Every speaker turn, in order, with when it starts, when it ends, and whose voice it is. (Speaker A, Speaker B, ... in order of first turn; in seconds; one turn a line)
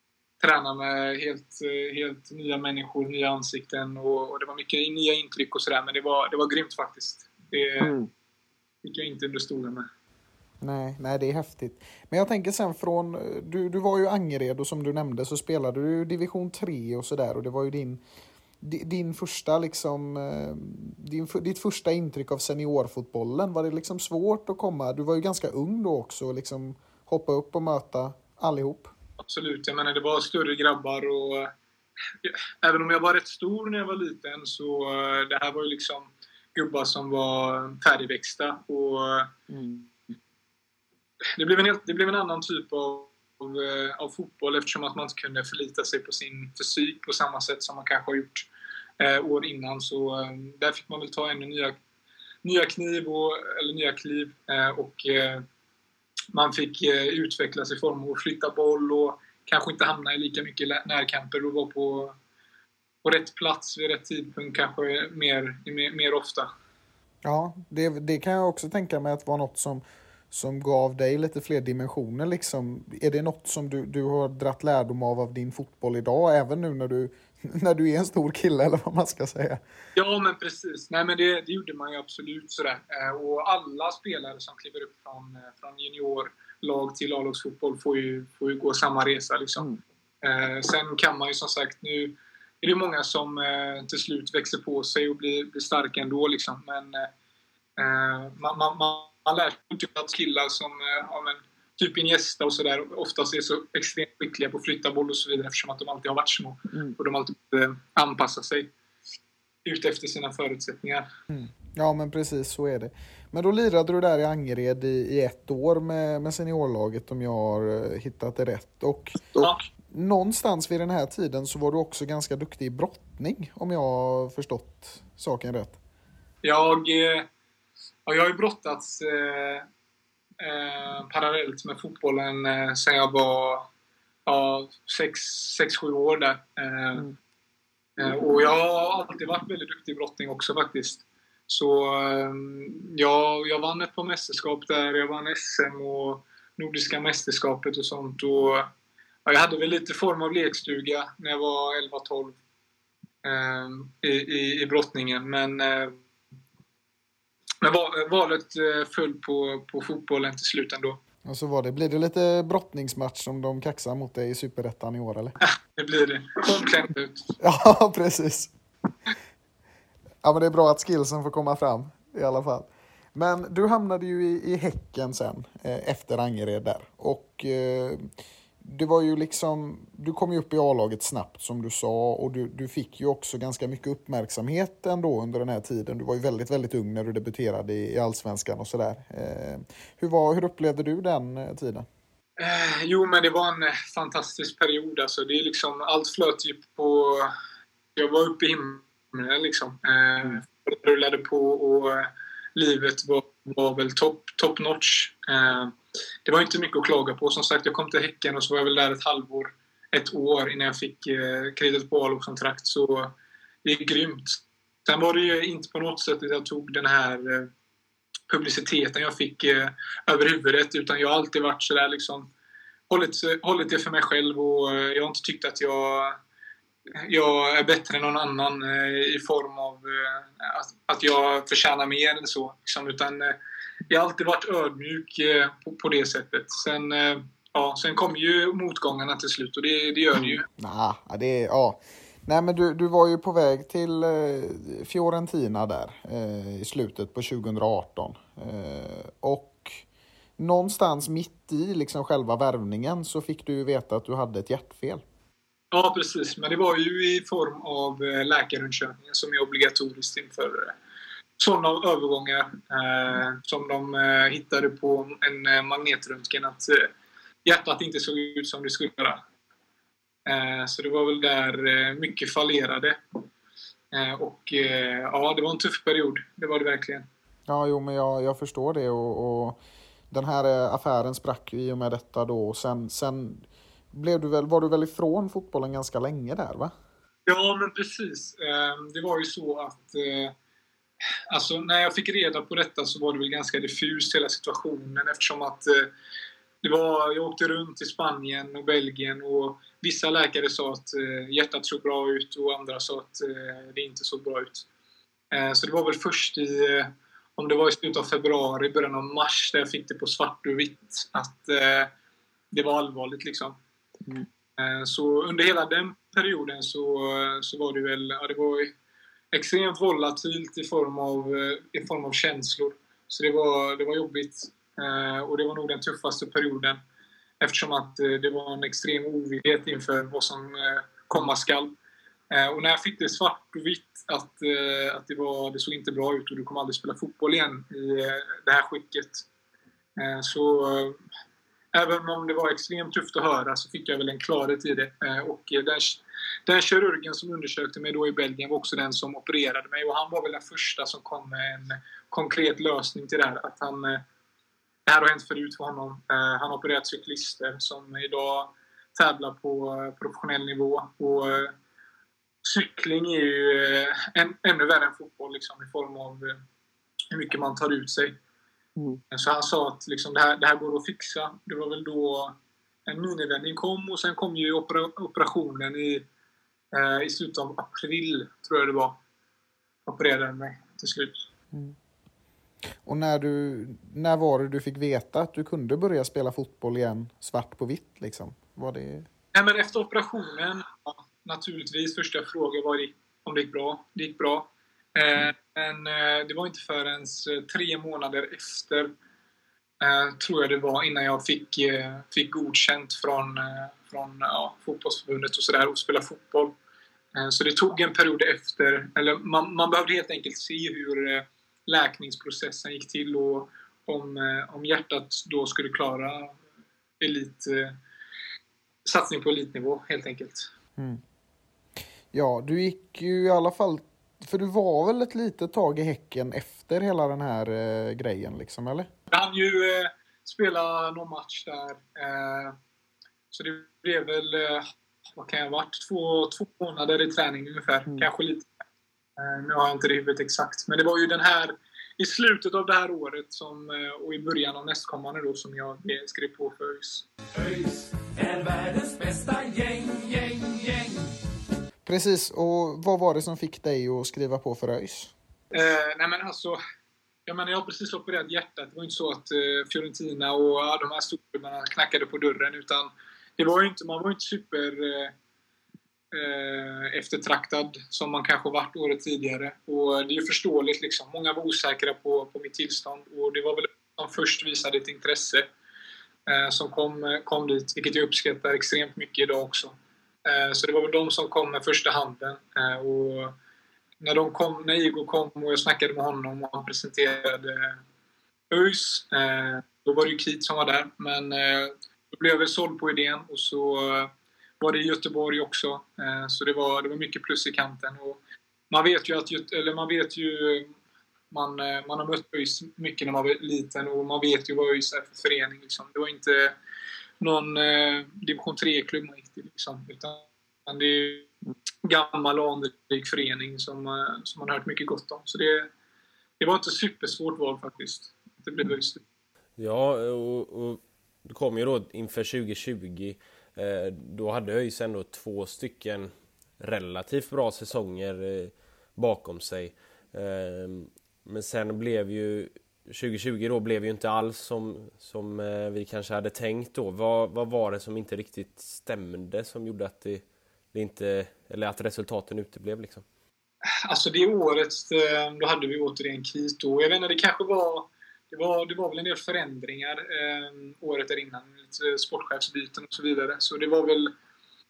Speaker A: 0.4-8.0
Speaker B: 7.8-8.1
Speaker A: 8.8-9.9
Speaker B: 10.6-18.0
Speaker B: 18.6-28.9
Speaker A: 29.2-31.5
Speaker A: 32.2-39.3
Speaker B: 39.5-40.2
Speaker A: 41.4-48.5
Speaker A: 49.0-51.8
Speaker A: 52.4-55.5
Speaker A: 56.3-62.2
Speaker A: 63.0-66.5
Speaker B: 67.2-79.6
Speaker A: 80.0-89.7
Speaker A: 90.2-97.1
Speaker A: 97.8-108.7
Speaker A: 109.7-111.1
Speaker B: 111.3-125.8
Speaker A: 119.4-119.6
Speaker A: 126.4-127.3
Speaker A: 128.1-129.7
Speaker A: 130.4-133.7
Speaker A: 134.3-137.1
Speaker A: 138.0-148.7
Speaker A: 149.3-152.4
Speaker A: 153.2-156.0
Speaker A: 157.6-161.0
Speaker B: 161.3-165.4
Speaker A: 165.8-167.3
Speaker B: 167.4-168.5
Speaker B: 170.2-178.1
Speaker B: 178.6-191.9
Speaker A: 192.4-197.3
Speaker A: 198.0-217.5
Speaker A: 218.3-222.3
Speaker A: 222.9-226.2
Speaker A: 227.0-233.4
Speaker A: 233.9-240.4
Speaker B: 240.2-249.8
Speaker B: 250.4-255.0
Speaker A: 255.7-260.8
Speaker A: 261.4-266.9
Speaker A: 267.4-269.2
Speaker A: 270.3-273.0
Speaker A: 273.9-277.1
Speaker B: 277.5-279.6
Speaker B: 280.1-286.7
Speaker A: 287.3-290.4
Speaker A: 291.3-295.9
Speaker A: 296.6-304.7
Speaker A: 305.3-311.9
Speaker A: 312.5-313.6
Speaker A: 314.6-318.7
Speaker A: 319.3-326.8
Speaker A: 327.4-331.8
Speaker A: 332.3-339.3
Speaker A: 340.0-341.0
Speaker A: 341.7-354.0
Speaker A: 354.9-361.6
Speaker A: 362.4-366.4
Speaker A: 367.1-368.2
Speaker A: 369.1-376.1
Speaker A: 376.7-379.0
Speaker A: 379.9-381.2
Speaker B: 382.9-389.1
Speaker A: 389.3-398.9
Speaker A: 399.8-406.6
Speaker A: 407.1-416.4
Speaker A: 417.0-417.8
Speaker A: 418.9-420.5
Speaker B: 422.1-428.9
Speaker A: 429.1-432.6
Speaker A: 433.3-438.5
Speaker A: 439.2-447.1
Speaker C: 447.3-451.1
Speaker B: 451.9-455.1
Speaker A: 455.5-456.6
Speaker A: 457.3-465.1
Speaker A: 466.1-475.5
Speaker A: 476.3-483.4
Speaker A: 484.0-487.8
Speaker A: 488.5-498.2
Speaker A: 498.7-500.7
Speaker A: 501.3-506.6
Speaker A: 507.2-511.3
Speaker A: 511.8-515.7
Speaker A: 516.4-519.0
Speaker D: 519.6-543.0
Speaker A: 543.9-554.1